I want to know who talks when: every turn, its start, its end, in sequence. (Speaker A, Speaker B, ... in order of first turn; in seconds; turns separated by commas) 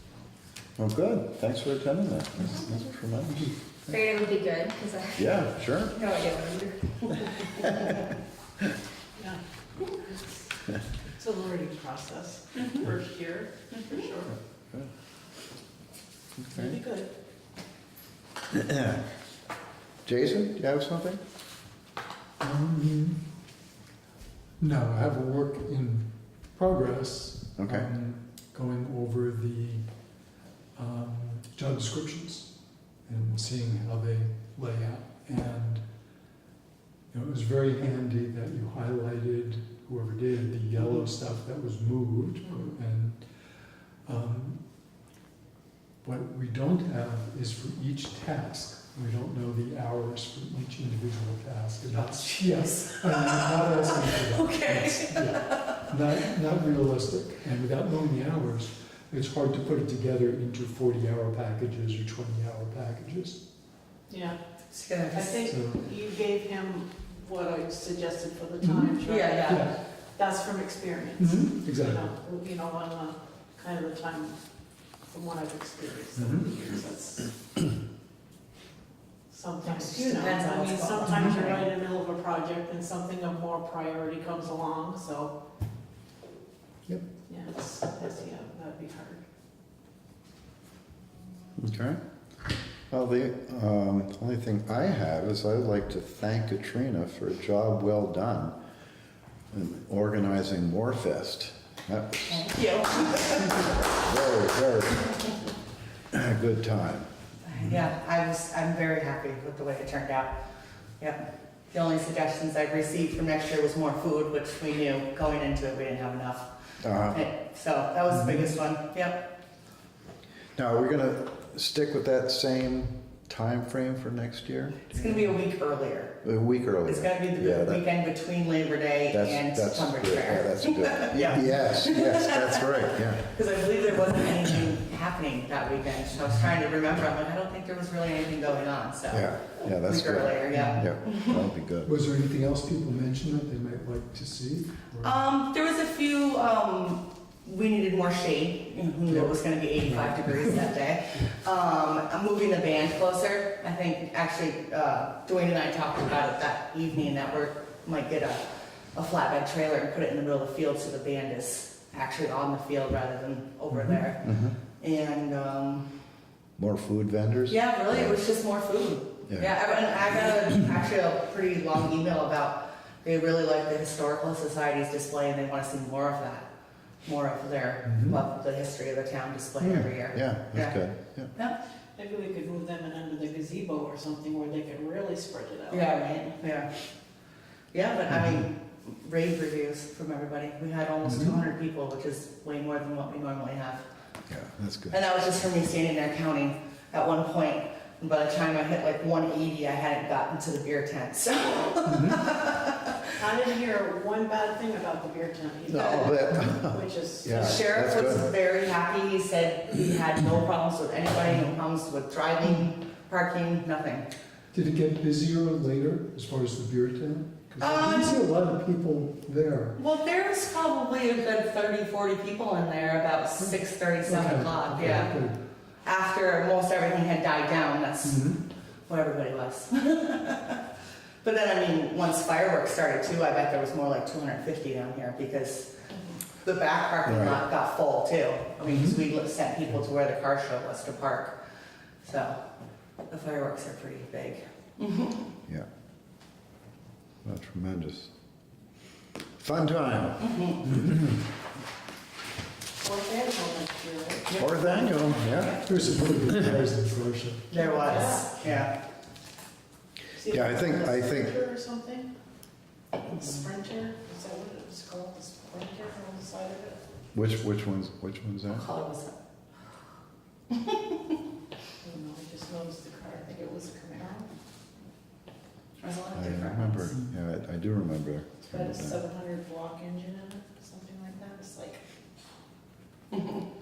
Speaker A: 0.8-3.5, Speaker B: 3.9-5.2, Speaker A: 5.2-6.0, Speaker B: 5.9-6.8, Speaker C: 10.1-10.3, Speaker C: 11.2-14.3, Speaker D: 12.6-12.9, Speaker A: 14.3-14.9, Speaker A: 16.4-16.8, Speaker C: 16.6-17.1, Speaker A: 18.5-19.0, Speaker A: 20.1-21.2, Speaker E: 22.4-23.3, Speaker E: 24.6-29.9, Speaker A: 27.6-27.9, Speaker E: 30.8-32.5, Speaker E: 33.0-35.9, Speaker E: 37.1-43.3, Speaker E: 44.0-44.6, Speaker E: 46.0-63.4, Speaker D: 51.9-55.9, Speaker C: 64.1-64.4, Speaker D: 64.7-65.5, Speaker C: 65.1-74.4, Speaker E: 65.5-65.9, Speaker E: 68.6-69.8, Speaker D: 69.0-69.7, Speaker E: 71.2-72.1, Speaker C: 75.1-77.3, Speaker E: 76.2-76.5, Speaker C: 79.3-85.3, Speaker D: 79.6-81.7, Speaker E: 81.0-81.4, Speaker C: 87.3-89.2, Speaker A: 91.6-92.0, Speaker A: 92.9-98.6, Speaker A: 99.5-102.5, Speaker D: 102.3-103.8, Speaker A: 103.4-105.1, Speaker A: 106.1-107.1, Speaker D: 107.5-110.4, Speaker D: 111.0-116.5, Speaker A: 116.8-117.2, Speaker D: 117.0-119.3, Speaker E: 118.1-118.5, Speaker A: 120.6-125.3, Speaker D: 124.9-126.2, Speaker A: 126.2-127.8, Speaker D: 126.8-141.4, Speaker A: 129.1-133.3, Speaker A: 139.1-141.9, Speaker E: 140.5-140.8, Speaker E: 141.8-145.2, Speaker D: 145.0-165.9, Speaker E: 149.1-150.6, Speaker E: 163.7-164.0, Speaker A: 164.2-164.6, Speaker A: 166.6-168.2, Speaker D: 167.5-176.5, Speaker A: 169.3-169.6, Speaker D: 177.0-180.8, Speaker E: 177.8-178.2, Speaker A: 179.6-181.3, Speaker C: 182.0-185.9, Speaker D: 185.7-186.7, Speaker D: 187.7-193.8, Speaker E: 191.0-191.4, Speaker A: 194.3-195.0, Speaker D: 194.9-203.1, Speaker E: 201.8-202.3, Speaker C: 203.2-207.7, Speaker A: 205.7-208.3, Speaker D: 205.7-206.6, Speaker D: 207.3-214.1, Speaker E: 214.5-219.8, Speaker D: 217.6-218.2, Speaker D: 219.8-225.2, Speaker E: 223.4-225.4, Speaker D: 225.8-228.3, Speaker E: 228.0-228.4, Speaker D: 228.9-230.6, Speaker D: 231.2-235.8, Speaker D: 236.4-241.3, Speaker A: 237.1-237.4, Speaker E: 238.7-239.0, Speaker D: 242.0-242.4, Speaker D: 243.1-245.3, Speaker A: 247.2-248.1, Speaker A: 249.4-250.9, Speaker D: 250.2-250.7, Speaker C: 252.8-255.0, Speaker D: 254.3-254.6, Speaker A: 254.4-255.6, Speaker D: 255.1-255.6, Speaker E: 255.6-257.5, Speaker D: 257.5-258.7, Speaker C: 257.6-258.3, Speaker E: 258.4-258.7, Speaker C: 260.1-262.1, Speaker A: 260.3-261.4, Speaker C: 263.0-266.8, Speaker A: 267.1-268.7, Speaker D: 268.5-269.2, Speaker D: 270.5-271.0, Speaker C: 271.8-274.3, Speaker D: 275.8-276.9, Speaker A: 276.1-279.0, Speaker C: 278.5-281.8, Speaker D: 283.1-283.4